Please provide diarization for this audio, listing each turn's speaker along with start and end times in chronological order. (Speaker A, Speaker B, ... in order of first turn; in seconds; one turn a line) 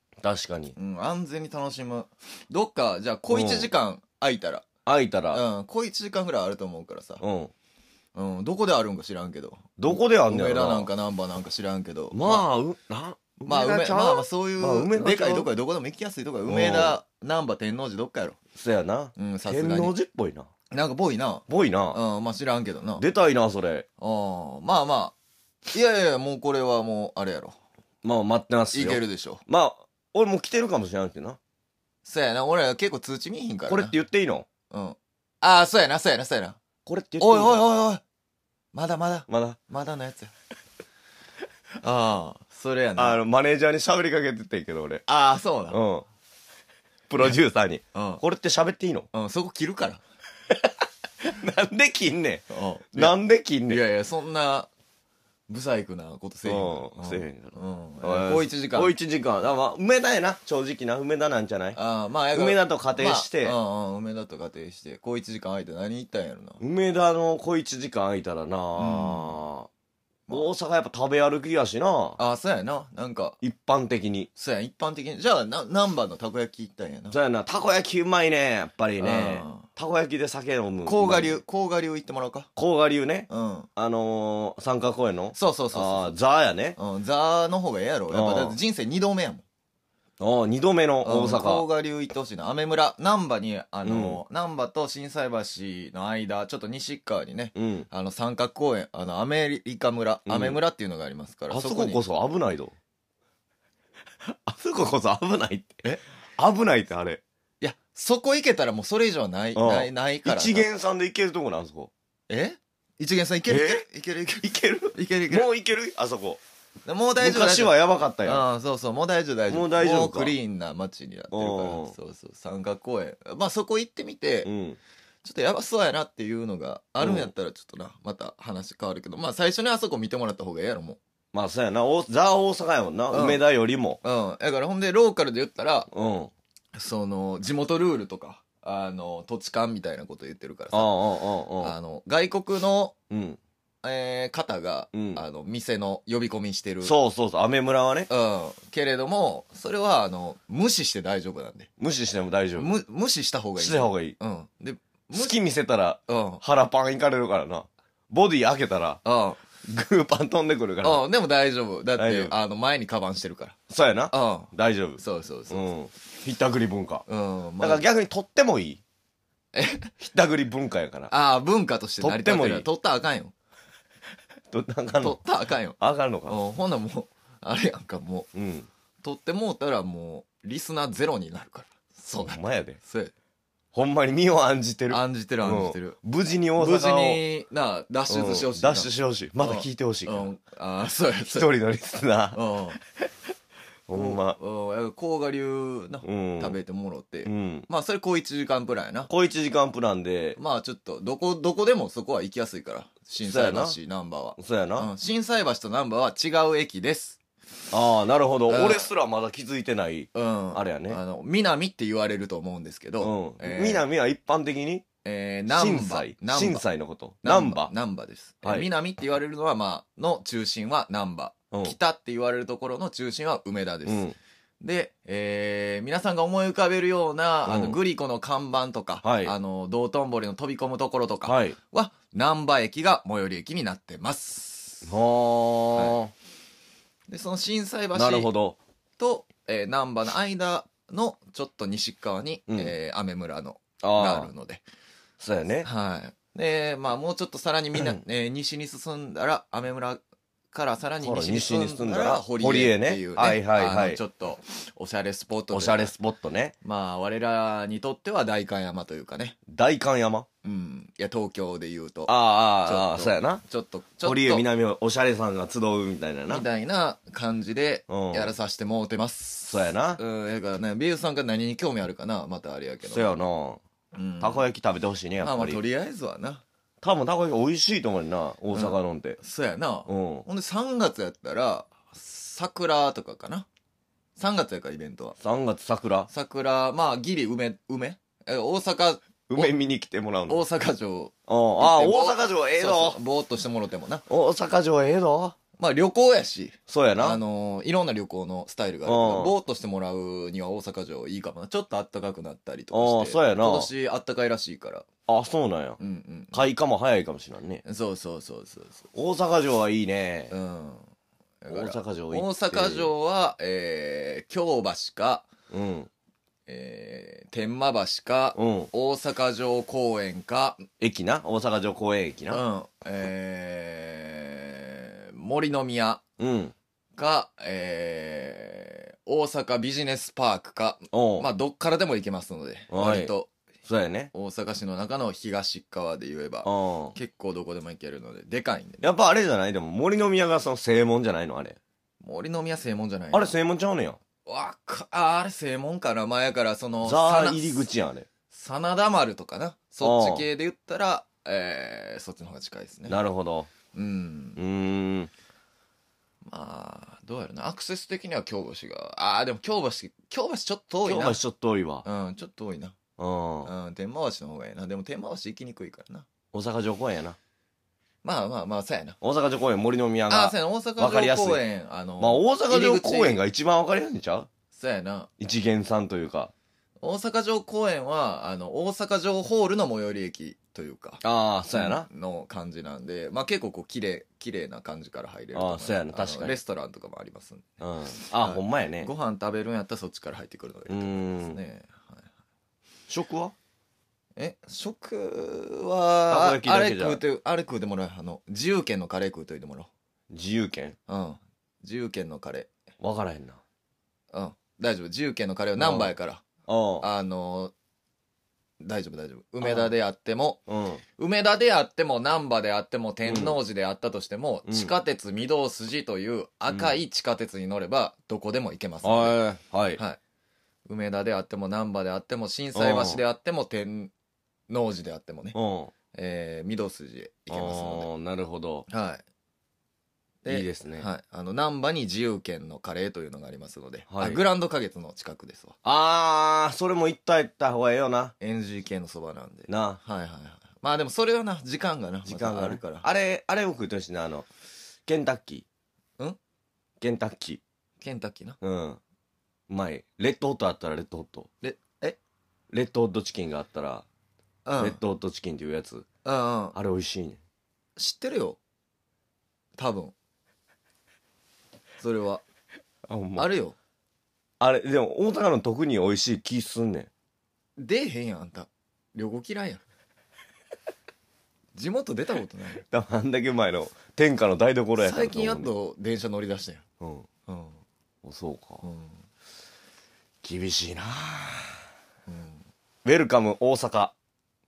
Speaker A: 0.2-0.8
Speaker B: 0.7-4.7
Speaker A: 3.3-3.7
Speaker A: 4.8-5.4
Speaker B: 5.3-7.2
Speaker A: 7.2-7.5
Speaker B: 8.1-12.4
Speaker A: 9.8-10.9
Speaker A: 12.1-15.5
Speaker B: 13.4-18.4
Speaker A: 16.4-17.0
Speaker A: 18.5-20.5
Speaker B: 19.1-19.9
Speaker B: 20.7-23.1
Speaker A: 21.5-22.0
Speaker A: 23.0-23.9
Speaker B: 24.0-25.1
Speaker B: 25.7-27.5
Speaker A: 28.0-31.4
Speaker B: 28.7-29.4
Speaker B: 32.0-33.9
Speaker A: 33.7-34.5
Speaker B: 34.7-36.6
Speaker A: 36.9-37.6
Speaker B: 37.2-38.0
Speaker B: 38.7-40.3
Speaker A: 39.3-39.6
Speaker B: 41.8-43.2
Speaker A: 43.0-45.0
Speaker B: 45.0-45.8
Speaker A: 45.7-46.0
Speaker A: 47.1-49.1
Speaker B: 47.9-48.2
Speaker B: 49.1-50.0
Speaker A: 51.2-53.8
Speaker B: 52.5-54.7
Speaker B: 55.5-58.9
Speaker A: 56.4-61.8
Speaker B: 61.7-66.6
Speaker A: 62.3-63.6
Speaker A: 66.6-69.7
Speaker B: 68.8-69.4
Speaker A: 70.3-72.2
Speaker B: 72.2-73.4
Speaker A: 73.4-74.3
Speaker B: 74.3-77.2
Speaker A: 77.1-81.4
Speaker B: 79.0-79.7
Speaker B: 80.8-82.5
Speaker A: 82.5-86.8
Speaker B: 83.3-83.7
Speaker B: 85.3-86.2
Speaker B: 86.8-89.4
Speaker A: 88.1-88.6
Speaker A: 90.2-91.6
Speaker B: 91.0-102.0
Speaker A: 93.8-94.2
Speaker A: 97.5-97.9
Speaker A: 100.2-100.6
Speaker A: 101.5-102.7
Speaker A: 104.2-105.8
Speaker A: 106.4-107.2
Speaker B: 107.6-110.7
Speaker A: 109.5-111.9
Speaker B: 112.3-115.5
Speaker A: 113.5-113.8
Speaker A: 114.4-116.4
Speaker B: 116.8-124.5
Speaker A: 117.2-118.5
Speaker A: 119.5-120.3
Speaker A: 121.3-121.9
Speaker A: 124.4-124.8
Speaker B: 125.2-131.0
Speaker A: 127.0-127.3
Speaker A: 131.3-134.0
Speaker B: 133.1-133.4
Speaker B: 134.0-135.9
Speaker A: 135.9-136.3
Speaker B: 136.8-141.1
Speaker A: 140.7-141.7
Speaker B: 141.6-142.9
Speaker A: 143.1-143.4
Speaker B: 143.8-146.9
Speaker A: 144.9-145.2
Speaker A: 146.8-148.1
Speaker B: 148.1-151.7
Speaker A: 151.8-152.8
Speaker B: 152.6-155.4
Speaker A: 153.6-154.1
Speaker A: 155.1-159.0
Speaker B: 156.1-156.4
Speaker B: 159.0-159.4
Speaker A: 159.6-161.0
Speaker B: 160.8-163.6
Speaker A: 162.0-162.3
Speaker A: 163.7-167.0
Speaker B: 164.1-165.7
Speaker B: 167.1-167.8
Speaker A: 167.6-168.8
Speaker B: 169.5-169.9
Speaker A: 170.0-171.1
Speaker B: 171.1-173.3
Speaker A: 172.0-172.7
Speaker A: 174.5-175.2
Speaker B: 175.0-178.3
Speaker A: 175.8-176.4
Speaker A: 178.3-178.7
Speaker B: 179.0-183.1
Speaker A: 182.2-182.8
Speaker A: 183.7-187.2
Speaker B: 184.9-186.0
Speaker B: 186.6-191.5
Speaker A: 188.1-190.3
Speaker A: 191.3-192.4
Speaker B: 192.3-192.8
Speaker A: 193.9-194.4
Speaker B: 193.9-199.1
Speaker A: 196.0-196.6
Speaker A: 197.2-197.7
Speaker A: 199.1-200.4
Speaker B: 200.3-207.2
Speaker A: 203.2-203.8
Speaker A: 204.4-204.9
Speaker A: 207.7-211.0
Speaker B: 208.5-208.9
Speaker B: 210.1-213.8
Speaker A: 213.0-214.8
Speaker B: 215.0-216.7
Speaker A: 215.5-217.7
Speaker B: 217.2-224.1
Speaker A: 218.4-218.7
Speaker A: 221.5-221.8
Speaker A: 223.8-224.2
Speaker B: 224.6-234.9
Speaker A: 227.4-227.8
Speaker A: 229.0-229.3
Speaker A: 231.2-231.6
Speaker A: 234.8-236.1
Speaker B: 237.1-238.3
Speaker A: 237.9-238.6
Speaker B: 239.0-244.6
Speaker A: 242.5-242.7
Speaker A: 243.8-244.3
Speaker A: 245.2-245.7
Speaker B: 245.6-255.9
Speaker A: 251.0-254.0
Speaker A: 255.5-256.5
Speaker B: 256.6-259.4
Speaker A: 259.5-260.2
Speaker B: 260.4-264.4
Speaker A: 262.1-263.4
Speaker A: 264.0-266.4
Speaker B: 266.3-273.2
Speaker A: 267.9-268.3
Speaker A: 269.5-270.0
Speaker A: 272.9-273.6
Speaker B: 273.9-274.4
Speaker A: 274.2-275.6
Speaker B: 275.2-276.4
Speaker A: 276.8-279.2
Speaker B: 278.5-283.4
Speaker A: 279.9-280.2
Speaker B: 284.2-285.2
Speaker A: 285.2-286.1
Speaker B: 286.1-289.5
Speaker A: 289.3-290.4
Speaker B: 290.3-294.0
Speaker A: 291.3-293.0
Speaker A: 294.1-295.4
Speaker B: 295.6-304.9
Speaker A: 296.7-297.2
Speaker A: 298.8-299.3
Speaker A: 302.7-303.7
Speaker A: 305.1-305.8
Speaker B: 305.8-306.5
Speaker A: 306.3-307.6
Speaker B: 307.6-308.8
Speaker A: 308.9-310.3
Speaker B: 310.3-310.9
Speaker B: 311.4-315.3
Speaker A: 311.5-312.9
Speaker A: 315.5-315.9
Speaker B: 316.5-320.6
Speaker A: 318.3-318.7
Speaker A: 320.8-322.4
Speaker B: 322.3-326.0
Speaker A: 326.2-326.5
Speaker B: 326.9-333.3
Speaker A: 330.9-331.3
Speaker A: 332.7-333.1
Speaker A: 333.6-334.1
Speaker B: 334.1-338.9
Speaker A: 336.4-336.9
Speaker A: 338.8-341.6
Speaker B: 342.0-343.4
Speaker A: 343.1-344.0
Speaker B: 344.2-347.7
Speaker A: 346.8-348.1
Speaker B: 348.3-353.0
Speaker A: 349.8-350.3
Speaker A: 352.9-353.5
Speaker B: 353.7-354.4
Speaker A: 354.4-355.1
Speaker B: 356.2-361.2
Speaker A: 360.8-361.8
Speaker B: 361.8-362.8
Speaker A: 363.0-363.5
Speaker B: 363.4-366.1
Speaker A: 366.3-367.2
Speaker B: 368.0-369.0
Speaker A: 369.0-371.4
Speaker B: 370.1-373.2
Speaker A: 372.0-374.3
Speaker B: 374.5-375.1
Speaker A: 375.2-376.3
Speaker B: 376.8-381.0
Speaker A: 381.0-381.9
Speaker B: 381.5-392.1
Speaker A: 385.3-386.4
Speaker A: 387.6-388.9
Speaker A: 390.7-391.4
Speaker A: 392.9-393.3
Speaker B: 394.1-399.7
Speaker A: 396.1-397.0
Speaker A: 400.1-400.8
Speaker B: 400.9-402.5
Speaker A: 402.8-403.4
Speaker B: 404.1-406.2
Speaker A: 405.6-405.9
Speaker A: 406.4-406.9
Speaker B: 406.8-407.5
Speaker B: 408.6-410.4
Speaker A: 409.4-409.7
Speaker A: 410.5-410.8
Speaker B: 411.0-419.2
Speaker A: 413.1-413.4
Speaker A: 414.5-414.7
Speaker A: 416.5-416.8
Speaker A: 418.8-419.8
Speaker B: 420.6-423.9
Speaker A: 422.5-423.0
Speaker B: 424.5-425.4
Speaker A: 425.3-425.7
Speaker B: 425.9-427.9
Speaker A: 427.3-428.7
Speaker B: 428.7-429.0
Speaker B: 430.2-435.6
Speaker A: 430.3-430.9
Speaker A: 433.9-434.2
Speaker A: 435.6-438.1
Speaker B: 438.2-442.9
Speaker A: 439.5-439.8
Speaker A: 442.0-444.3
Speaker A: 444.9-445.4
Speaker A: 446.8-447.4
Speaker B: 447.8-448.4
Speaker A: 448.4-448.8
Speaker A: 449.5-451.3
Speaker B: 451.4-452.0
Speaker A: 452.5-453.9
Speaker B: 454.4-454.8
Speaker A: 454.6-455.8
Speaker B: 456.0-456.6
Speaker A: 456.5-457.2
Speaker B: 457.8-458.4
Speaker B: 459.6-459.9
Speaker B: 461.8-462.2
Speaker A: 462.9-463.3
Speaker B: 463.2-463.6
Speaker A: 464.4-466.9
Speaker B: 467.6-469.6
Speaker B: 471.5-472.6
Speaker A: 472.7-475.5
Speaker B: 474.8-476.6
Speaker A: 476.8-477.1
Speaker B: 477.3-477.6
Speaker A: 478.0-478.6
Speaker B: 478.6-478.9
Speaker A: 480.2-481.6
Speaker B: 482.1-482.4
Speaker A: 482.8-483.9